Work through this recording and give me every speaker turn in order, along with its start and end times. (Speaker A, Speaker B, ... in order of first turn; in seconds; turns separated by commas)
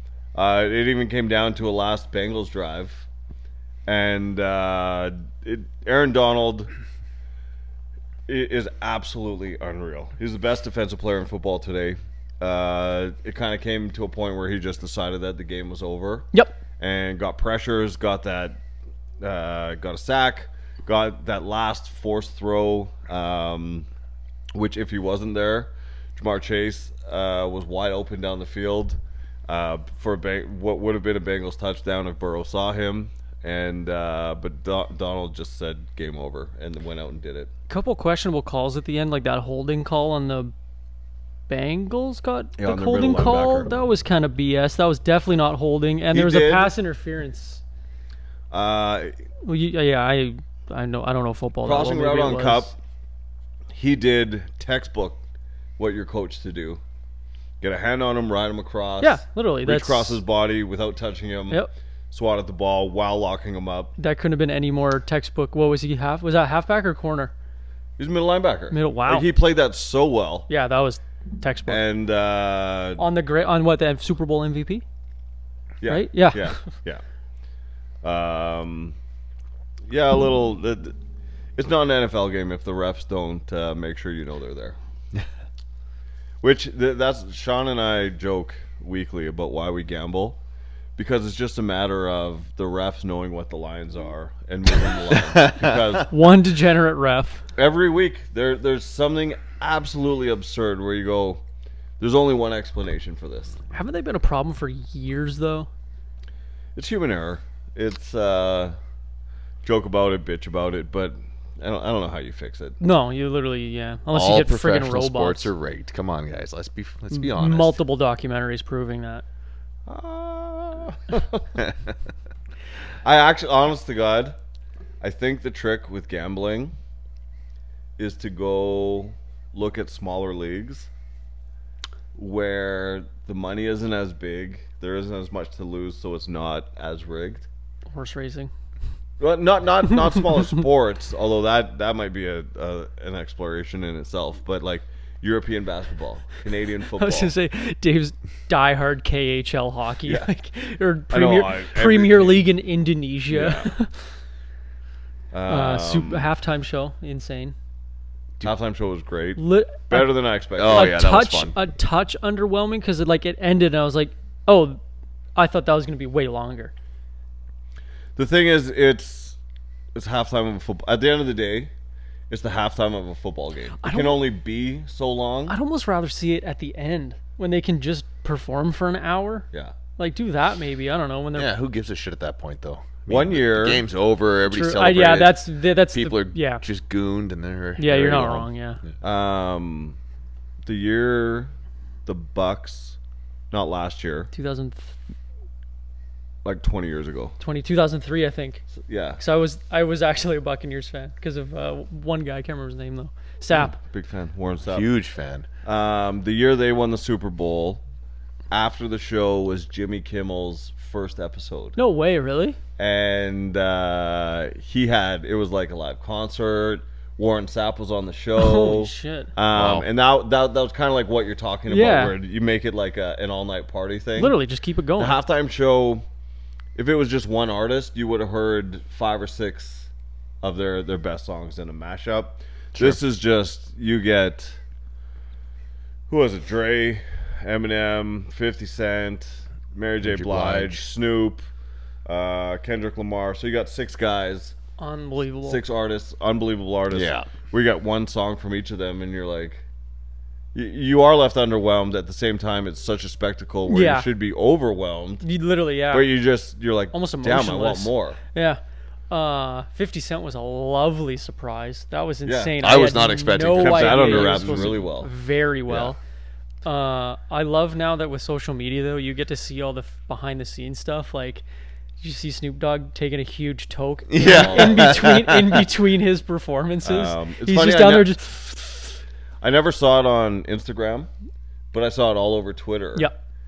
Speaker A: 0.3-3.1, Speaker A: 3.9-6.7, Speaker A: 8.3-18.6, Speaker B: 16.3-16.6, Speaker A: 19.2-23.9, Speaker A: 24.5-37.5, Speaker B: 37.7-40.5, Speaker B: 41.5-47.6, Speaker A: 42.6-43.7, Speaker A: 46.1-46.8, Speaker A: 48.5-49.2, Speaker B: 49.4-52.7, Speaker A: 51.6-52.8, Speaker A: 53.7-55.2, Speaker A: 55.8-56.8, Speaker A: 57.6-63.9, Speaker B: 59.0-60.2, Speaker B: 64.0-67.3, Speaker A: 68.0-70.5, Speaker B: 68.7-69.3, Speaker B: 70.5-71.8, Speaker A: 71.7-73.0, Speaker B: 73.0-74.8, Speaker A: 75.8-77.0, Speaker B: 75.9-76.5, Speaker A: 78.0-79.0, Speaker A: 79.9-81.0, Speaker A: 81.6-84.8, Speaker A: 86.4-90.4, Speaker A: 91.0-96.1, Speaker C: 95.1-95.9, Speaker B: 96.1-97.4, Speaker A: 97.6-101.4, Speaker A: 102.0-103.6, Speaker B: 103.7-105.7, Speaker A: 106.8-108.8, Speaker A: 109.6-112.8, Speaker B: 112.8-115.5, Speaker C: 114.1-117.8, Speaker B: 117.1-119.2, Speaker A: 119.9-121.5, Speaker A: 123.0-124.4, Speaker A: 125.0-126.8, Speaker A: 128.0-130.9, Speaker A: 132.2-137.5, Speaker B: 137.9-138.5, Speaker A: 139.2-147.3, Speaker B: 147.0-153.9, Speaker A: 151.1-152.5, Speaker A: 153.3-153.7, Speaker A: 155.3-156.3, Speaker B: 155.5-157.6, Speaker A: 158.4-161.0, Speaker B: 159.4-164.8, Speaker C: 160.6-161.6, Speaker B: 165.4-166.7, Speaker A: 168.2-169.4, Speaker A: 169.9-171.7, Speaker A: 172.3-175.6, Speaker B: 173.8-174.2, Speaker B: 175.5-181.5, Speaker C: 181.3-188.9, Speaker A: 183.1-183.8, Speaker B: 184.5-186.6, Speaker B: 187.8-188.8, Speaker A: 189.0-190.0, Speaker A: 190.7-191.5, Speaker A: 192.1-193.0, Speaker A: 193.5-194.3, Speaker B: 194.3-194.9, Speaker A: 196.4-197.4, Speaker B: 197.4-198.7, Speaker A: 198.8-199.2, Speaker B: 199.2-203.8, Speaker A: 203.7-204.9, Speaker C: 204.7-205.5, Speaker A: 205.7-207.8, Speaker A: 208.5-211.8, Speaker B: 211.8-212.6, Speaker A: 212.8-224.4, Speaker B: 218.4-219.3, Speaker C: 219.5-219.9, Speaker B: 221.7-222.2, Speaker B: 224.2-225.2, Speaker A: 225.0-226.1, Speaker A: 226.8-229.9, Speaker A: 230.4-234.6, Speaker A: 236.1-241.4, Speaker C: 240.0-240.8, Speaker A: 242.1-244.6, Speaker B: 244.8-245.6, Speaker A: 245.4-249.6, Speaker C: 246.9-247.3, Speaker A: 250.5-255.3, Speaker B: 253.7-254.1, Speaker B: 255.2-256.1, Speaker A: 255.9-258.2, Speaker B: 256.9-266.0, Speaker A: 262.2-262.6, Speaker C: 262.6-264.8, Speaker A: 263.5-265.1, Speaker A: 265.7-265.9, Speaker B: 266.6-271.4, Speaker B: 272.0-278.3, Speaker C: 274.1-275.6, Speaker A: 274.2-275.1, Speaker A: 276.8-281.1, Speaker A: 281.7-283.1